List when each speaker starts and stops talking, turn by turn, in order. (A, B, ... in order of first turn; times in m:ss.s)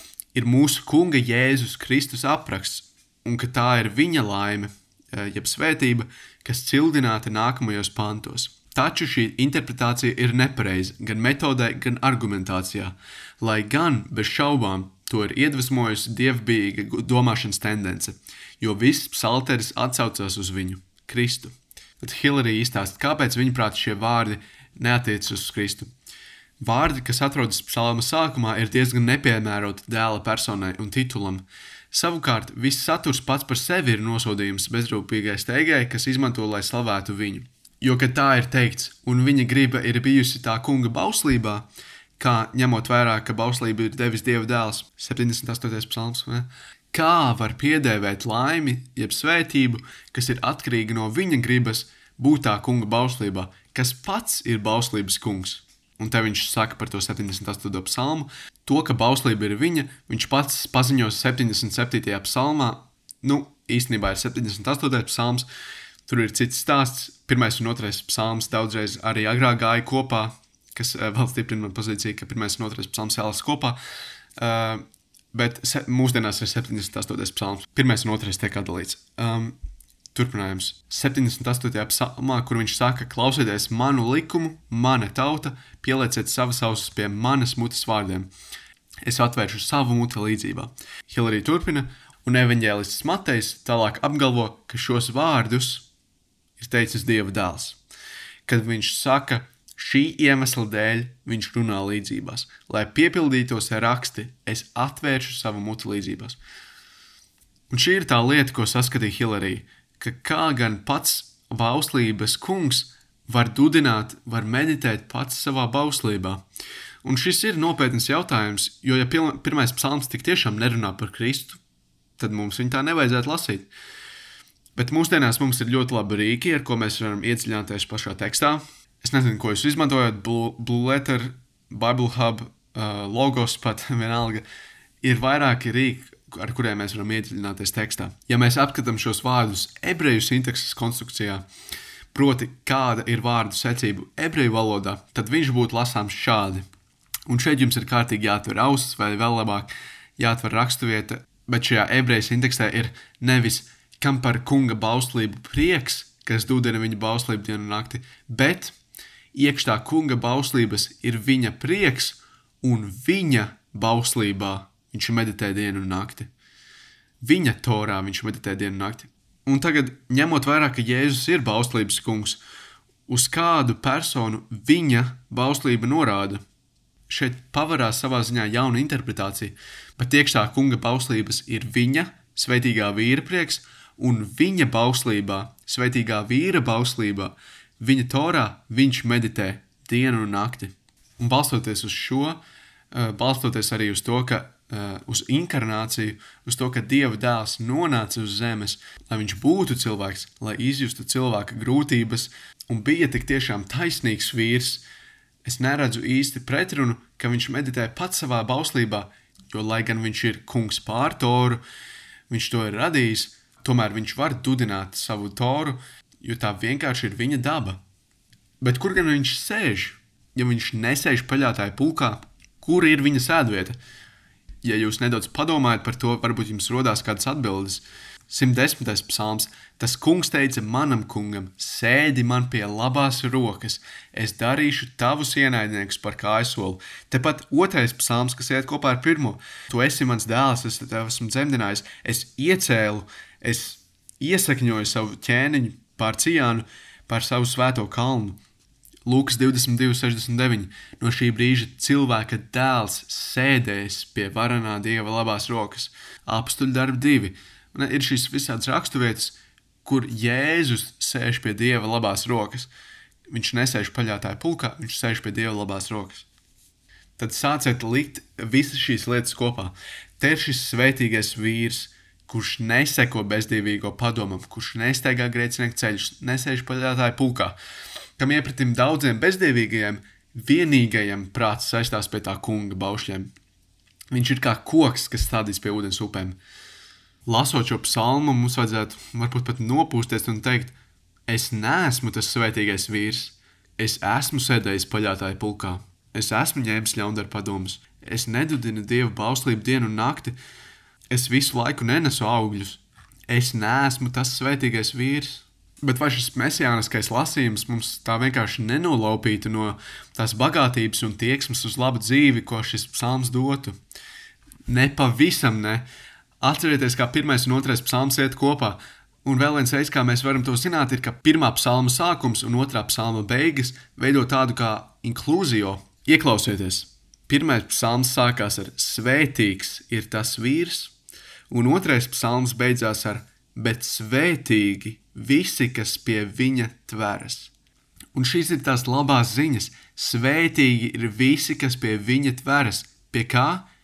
0:00.3-0:25.9 A
0:26.6-0:41.7 A
0:42.2-1:05.5 A
1:06.1-1:13.8 A
1:14.4-1:19.6 A
1:20.1-1:28.3 A
1:29.0-1:35.9 A
1:36.6-1:37.8 A
1:38.5-1:46.4 A
1:47.7-1:56.4 A
1:57.0-2:01.6 A
2:02.2-2:03.7 A
2:04.8-2:14.4 A
2:15.0-2:21.4 A
2:22.1-2:26.6 A
2:27.3-2:38.8 A
2:39.3-2:46.3 A
2:47.2-2:52.4 A
2:53.1-2:56.4 A
2:57.1-3:12.4 A
3:12.9-3:24.8 A
3:25.4-3:31.6 A
3:32.3-3:37.8 A
3:38.6-3:43.8 A
3:44.6-4:08.4 A
4:09.1-4:22.7 A
4:23.3-4:26.3 A
4:27.2-4:37.6 A
4:38.2-4:43.3 A
4:44.1-4:46.4 A
4:47.3-4:50.7 A
4:51.3-5:00.4 A
5:01.1-5:13.8 A
5:14.7-5:15.8 A
5:16.4-5:30.9 A
5:31.5-5:37.5 A
5:38.1-5:43.7 A